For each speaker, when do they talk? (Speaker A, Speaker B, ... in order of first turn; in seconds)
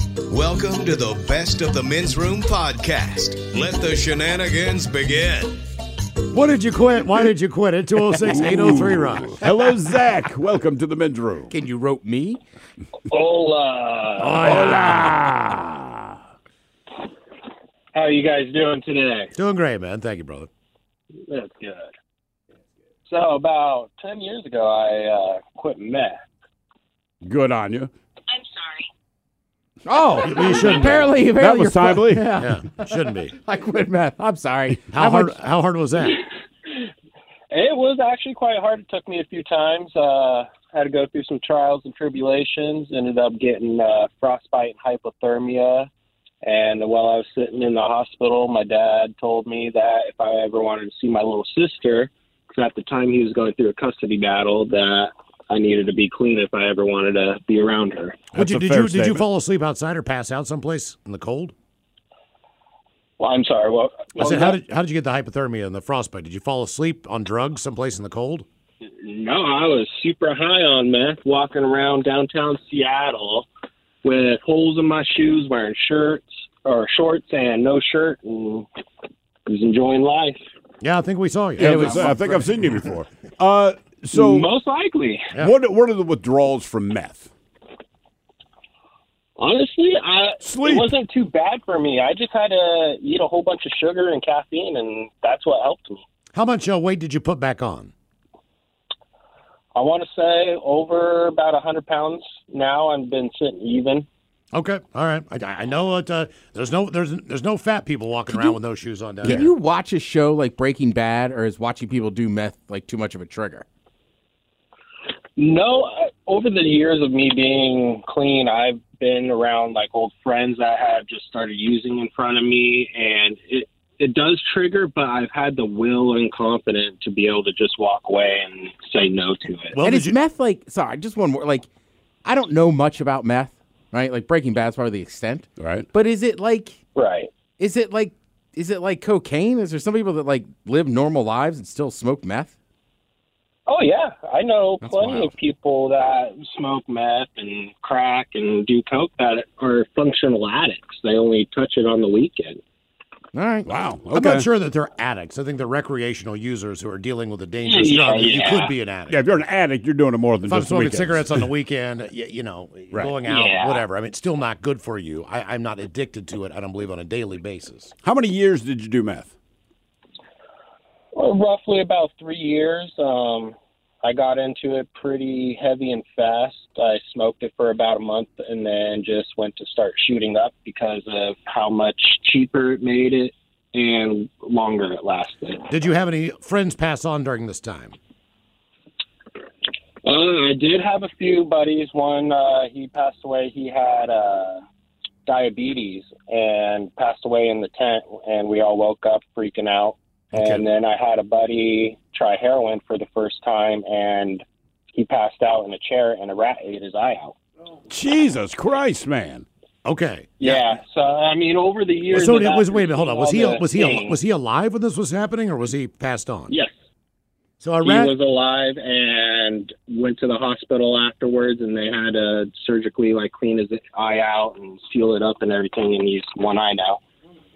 Speaker A: 0.3-5.6
Speaker B: 6.3-9.4, 14.2-15.1, 19.4-20.5, 30.2-31.2, 32.4-33.4, 34.9-36.2, 58.4-61.5, 64.2-68.5, 80.8-82.9, 96.3-97.9, 104.5-109.5, 129.8-130.2, 154.1-159.2, 160.5-167.9, 185.7-187.9, 200.3-200.7, 209.8-210.8, 212.1-216.5, 217.6-218.1
Speaker C: 8.2-11.5, 14.4-16.1, 27.2-27.9, 31.3-32.3, 58.3-59.3, 81.6-84.5, 85.4-87.3, 90.4-91.0, 109.2-109.5, 135.6-135.9, 153.7-154.5, 159.1-161.5, 168.0-169.3, 207.9-209.4
Speaker D: 11.5-12.4, 29.9-35.4, 81.6-82.0, 109.2-113.7, 129.8-131.7, 132.2-136.8, 137.6-142.5, 144.8-145.3, 153.3-153.7
Speaker E: 13.1-14.8, 17.9-19.3, 21.3-21.9, 23.1-26.2, 37.5-45.9, 46.4-58.2, 63.2-64.6, 69.0-73.5, 74.0-78.7, 79.5-80.4, 84.1-85.3, 89.4-96.0, 99.8-104.1, 115.4-129.8, 136.9-137.3, 143.7-152.6, 157.6-158.7, 163.2-163.8, 171.1-185.7, 190.0-194.6, 195.3-207.4, 210.4-214.2, 217.8-227.0